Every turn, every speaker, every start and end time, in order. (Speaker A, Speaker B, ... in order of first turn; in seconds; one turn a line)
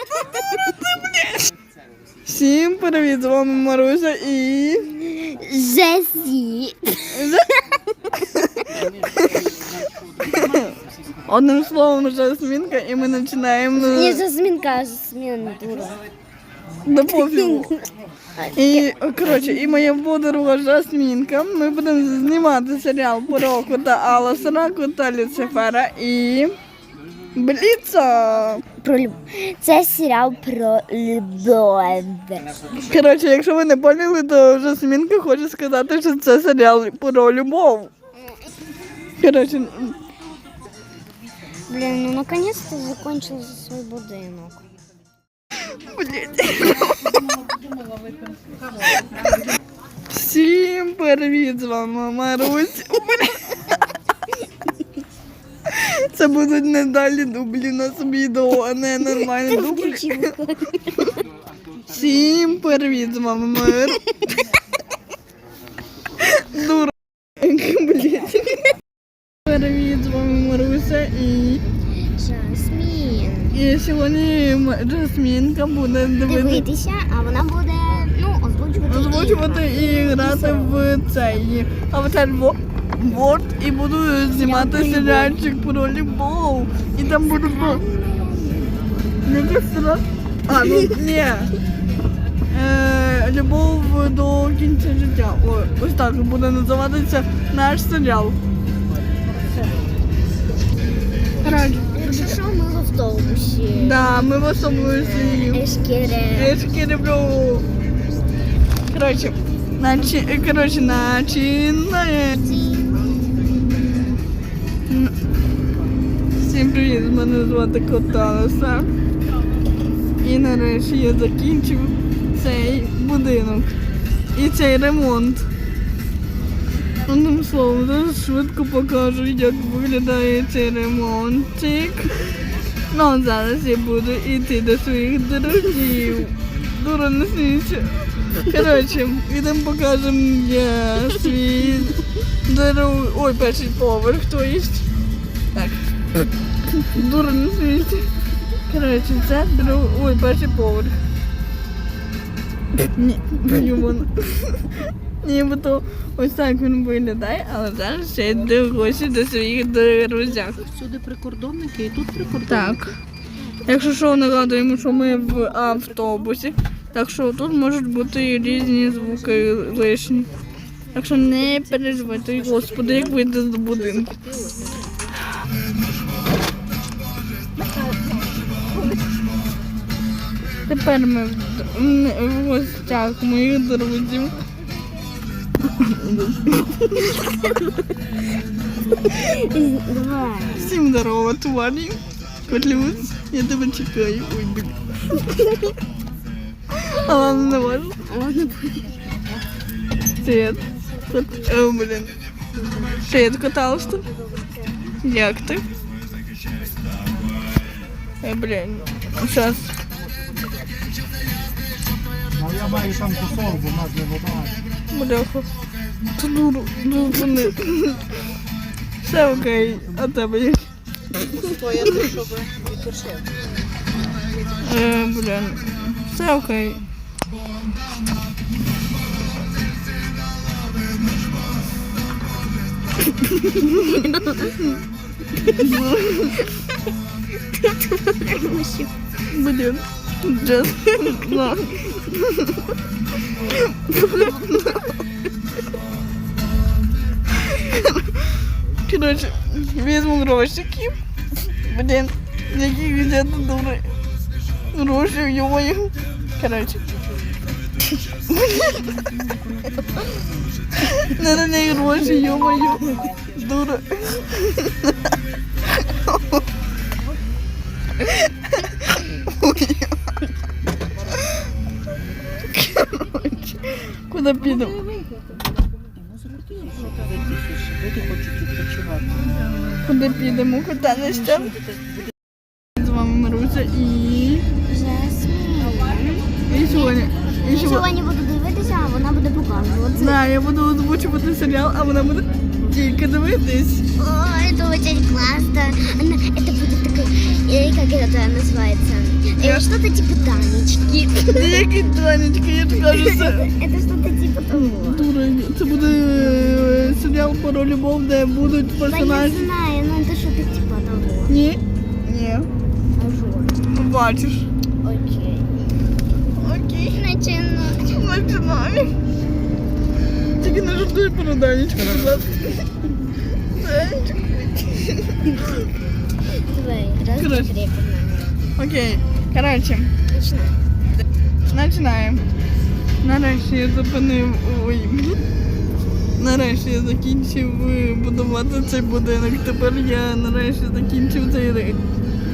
Speaker A: 0.9-1.3
Speaker A: 2.2-4.9
Speaker B: 5.0-7.4
Speaker A: 7.1-7.5
Speaker A: 8.4-9.5
Speaker B: 8.6-8.8
Speaker A: 10.2-10.7
Speaker A: 11.3-14.2
Speaker B: 13.7-16.0
Speaker A: 16.8-17.8
Speaker B: 17.1-17.8
Speaker B: 18.4-18.9
Speaker A: 18.5-26.5
Speaker A: 27.3-28.6
Speaker B: 28.8-32.6
Speaker A: 32.7-37.9
Speaker A: 39.2-40.0
Speaker B: 41.7-44.6
Speaker A: 45.8-47.2
Speaker A: 50.1-53.7
Speaker A: 55.7-60.3
Speaker B: 59.2-61.2
Speaker A: 61.9-64.0
Speaker A: 66.2-68.6
Speaker A: 69.4-71.6
Speaker B: 72.1-73.6
Speaker A: 73.5-76.6
Speaker B: 76.3-80.9
Speaker A: 78.8-87.8
Speaker B: 84.3-85.4
Speaker B: 87.1-89.2
Speaker A: 89.2-91.5
Speaker A: 92.5-98.4
Speaker A: 101.4-102.4
Speaker B: 101.5-104.1
Speaker A: 103.7-105.6
Speaker B: 104.7-106.6
Speaker A: 106.3-107.7
Speaker A: 108.9-112.4
Speaker B: 112.4-113.4
Speaker A: 114.9-115.1
Speaker A: 116.4-118.9
Speaker A: 120.2-123.8
Speaker A: 124.3-125.5
Speaker A: 127.0-144.9
Speaker A: 145.5-145.9
Speaker A: 146.9-148.1
Speaker A: 148.7-150.9
Speaker A: 152.9-160.7
Speaker C: 160.8-162.4
Speaker A: 162.3-163.0
Speaker A: 163.6-170.3
Speaker A: 170.9-174.2
Speaker A: 180.7-184.3
Speaker A: 185.8-187.2
Speaker B: 189.0-190.8
Speaker A: 190.6-194.8
Speaker A: 196.7-198.0
Speaker B: 198.1-199.1
Speaker A: 200.2-202.1
Speaker A: 202.9-204.0
Speaker B: 204.1-204.8
Speaker A: 205.0-205.7
Speaker A: 208.2-209.7
Speaker D: 212.4-214.5
Speaker A: 214.9-215.5
Speaker A: 216.1-218.1
Speaker A: 219.0-220.7
Speaker C: 221.6-223.2
Speaker A: 221.8-222.1
Speaker A: 224.5-226.8
Speaker A: 233.2-234.0
Speaker B: 233.6-234.5
Speaker A: 235.4-236.4
Speaker B: 237.5-238.9
Speaker A: 239.3-242.7
Speaker A: 243.4-245.0
Speaker A: 247.4-248.2
Speaker A: 248.8-253.9
Speaker A: 254.7-256.9
Speaker A: 258.3-259.0
Speaker A: 260.8-264.9
Speaker A: 265.9-266.2
Speaker A: 268.0-269.9
Speaker A: 272.4-274.8
Speaker C: 276.3-279.1
Speaker A: 279.8-281.6
Speaker A: 282.7-284.4
Speaker B: 284.6-290.2
Speaker A: 286.5-287.9
Speaker A: 289.9-293.9
Speaker B: 293.9-302.0
Speaker A: 299.4-299.6
Speaker A: 301.3-303.5
Speaker B: 302.8-305.1
Speaker A: 304.5-309.5
Speaker B: 308.8-311.3
Speaker A: 311.3-312.5
Speaker B: 312.9-313.6
Speaker A: 313.7-314.5
Speaker B: 314.8-315.6
Speaker A: 316.3-317.0
Speaker B: 316.9-318.2
Speaker A: 317.8-318.9
Speaker A: 320.4-322.7
Speaker A: 323.5-325.7
Speaker B: 326.4-328.4
Speaker A: 327.1-327.5
Speaker A: 328.6-329.9
Speaker B: 330.1-330.6
Speaker A: 331.5-332.2
Speaker A: 333.0-335.2
Speaker A: 336.2-341.8